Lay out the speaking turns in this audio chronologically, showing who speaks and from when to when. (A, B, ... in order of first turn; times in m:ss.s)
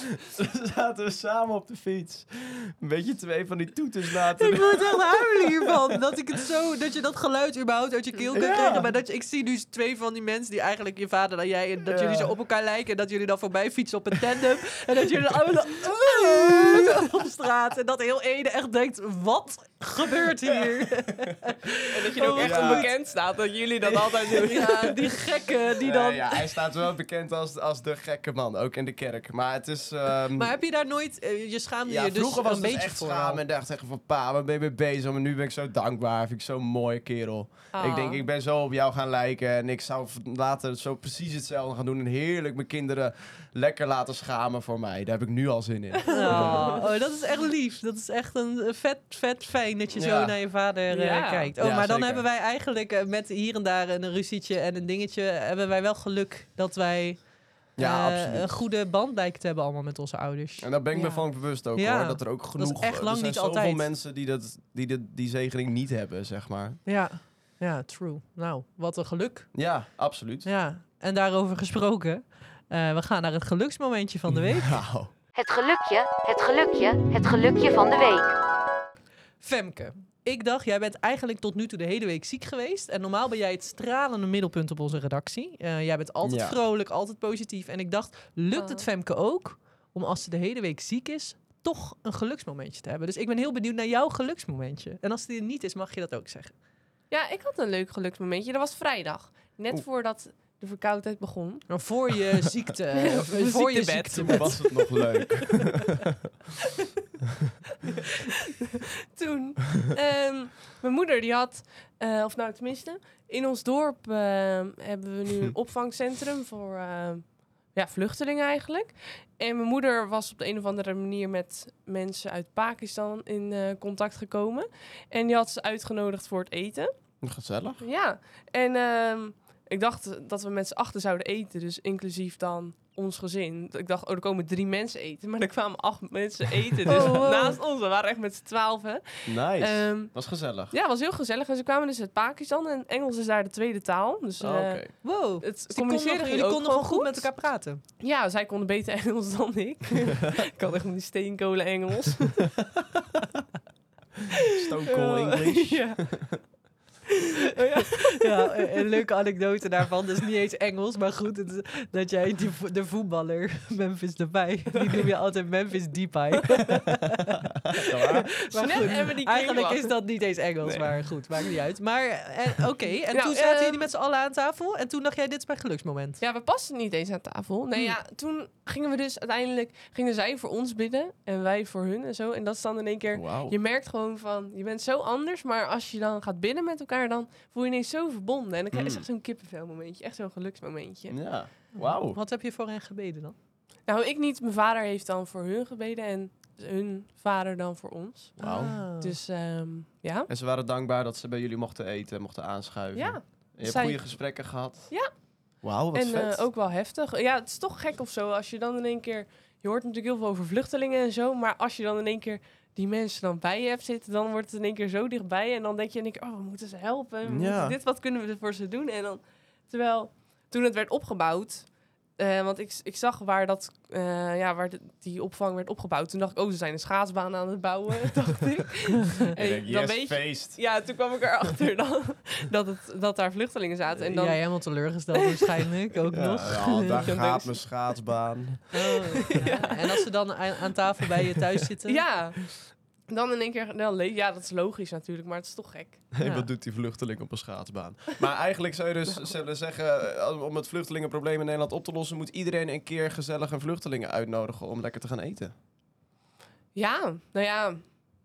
0:00.2-0:05.2 A
0:04.4-0:22.9 B
0:08.3-0:08.9 A
0:11.9-0:12.3 A
0:21.9-0:25.2 C
0:22.2-0:22.9 A
0:23.9-0:24.5 A
0:24.3-0:26.4 B
0:25.8-0:30.6 A
0:30.3-0:33.4 B
0:31.9-0:46.8 A
0:37.7-0:38.2 C
0:46.1-1:03.9 B
0:46.3-0:46.8 C
0:49.9-0:50.4 A
0:50.9-0:51.5 C
0:51.6-0:52.3 A
0:57.8-0:58.5 A
1:00.6-1:06.8 A
1:01.0-1:01.2 C
1:06.8-1:09.8 B
1:09.5-1:10.5 A
1:10.4-1:14.8 B
1:14.3-1:15.1 A
1:15.4-1:18.2 D
1:19.4-1:36.5 B
1:26.2-1:26.6 A
1:28.5-1:28.9 C
1:37.1-1:41.8 C
1:41.7-1:44.6 B
1:43.1-1:45.0 C
1:44.3-1:45.9 A
1:49.2-2:06.9 C
2:07.2-2:07.8 A
2:07.8-2:27.3 C
2:16.9-2:17.6 B
2:19.3-2:20.7 A
2:24.4-2:25.0 A
2:25.0-2:27.8 B
2:28.0-2:32.6 C
2:34.6-2:36.4 A
2:35.0-2:36.6 C
2:37.6-2:38.4 C
2:38.2-2:47.4 B
2:47.8-2:48.3 A
2:48.2-2:56.2 B
2:48.5-2:49.9 C
2:50.6-2:51.1 A
2:53.1-2:53.8 C
2:56.2-3:11.4 C
3:03.1-3:03.6 A
3:08.7-3:09.0 A
3:11.1-3:12.2 A
3:11.7-3:13.4 B
3:13.9-3:20.3 C
3:18.4-3:18.8 A
3:18.4-3:19.2 B
3:20.3-3:26.4 A
3:23.0-3:55.5 C
3:37.2-3:37.8 A
3:49.3-3:50.8 A
3:54.0-3:57.1 B
3:56.1-3:59.3 A
3:57.1-3:57.6 C
3:58.7-4:02.0 B
3:59.2-3:59.7 C
4:01.9-4:06.1 C
4:06.1-4:15.5 A
4:06.2-4:06.5 B
4:16.8-4:18.0 C